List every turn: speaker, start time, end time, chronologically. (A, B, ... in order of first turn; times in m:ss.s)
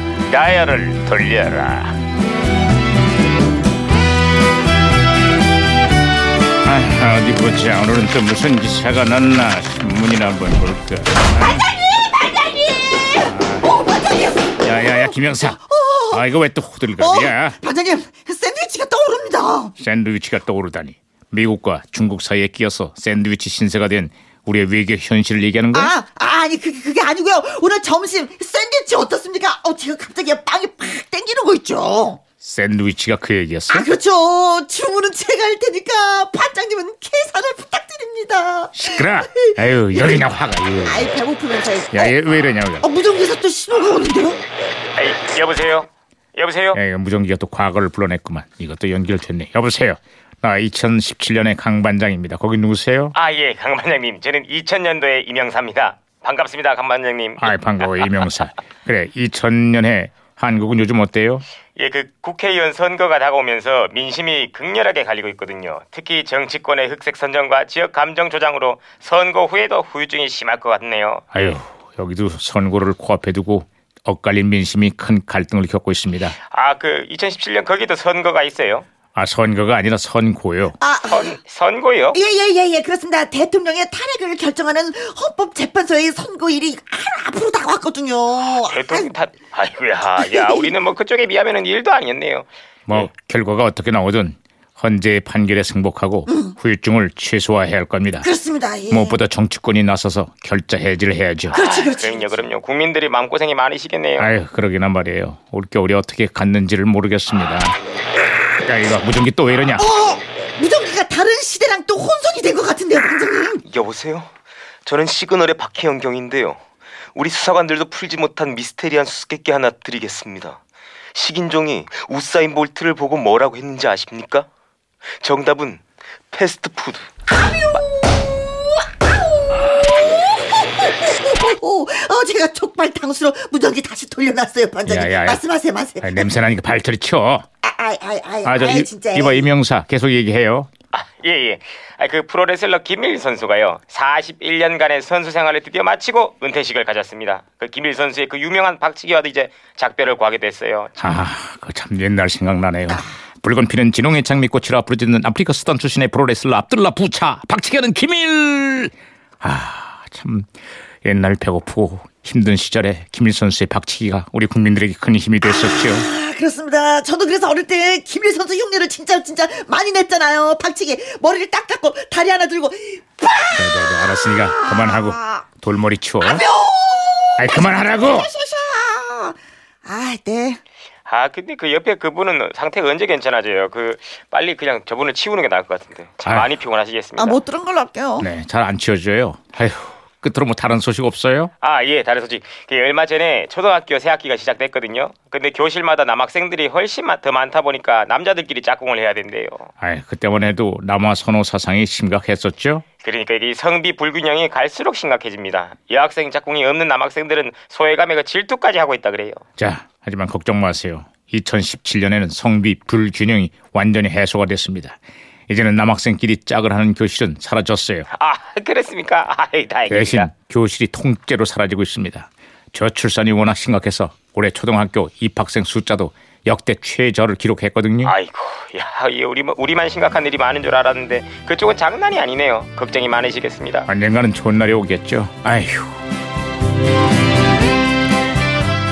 0:00.3-0:02.0 A
0:06.6-0:11.7 A
0:11.4-0:16.3 B
0:13.2-0:13.7 A
0:14.6-0:17.6 A
0:17.0-0:19.7 B
0:19.8-0:25.9 A
0:25.7-0:32.2 B
0:32.4-0:33.9 A
0:33.7-0:40.2 B
0:38.8-0:41.1 A
0:40.8-0:42.2 B
0:41.9-0:42.9 A
0:42.8-0:44.4 B
0:45.0-0:46.8 C
0:46.7-0:53.1 A
0:53.1-0:58.3 C
0:57.4-1:01.4 A
1:01.8-1:11.4 C
1:11.3-1:16.4 A
1:16.4-1:18.9 C
1:19.2-1:20.8 A
1:20.8-1:21.4 B
1:21.0-1:22.2 C
1:22.1-1:29.1 B
1:28.4-1:33.1 C
1:30.2-1:30.8 B
1:32.9-1:38.3 A
1:36.3-1:36.6 B
1:38.2-1:39.2 B
1:38.9-1:41.6 A
1:41.5-1:44.4 C
1:41.5-1:42.4 B
1:44.2-1:47.8 A
1:48.5-1:49.9 A
1:49.8-1:53.6 B
1:53.6-1:54.3 C
1:54.8-1:56.6 C
1:57.2-2:00.6 C
2:01.1-2:04.5 C
2:05.2-2:07.1 C
2:10.0-2:16.3 B
2:14.8-2:15.4 A
2:16.0-2:17.5 A
2:17.6-2:19.5 B
2:18.4-2:20.7 A
2:20.9-2:31.0 C
2:31.0-2:40.5 A
2:41.0-2:46.1 A
2:45.6-2:55.5 B
2:53.5-2:56.4 A
2:56.2-3:00.6 B
2:57.4-2:58.3 A
3:01.0-3:07.4 C
3:07.2-3:08.3 B
3:08.2-3:11.5 A
3:11.6-3:19.7 C
3:19.8-3:22.8 A
3:23.0-3:29.4 C
3:29.6-3:35.0 A
3:35.5-3:38.1 A
3:38.1-3:40.3 C
3:39.9-3:48.1 A
3:48.0-3:53.9 C
3:53.9-3:55.9 A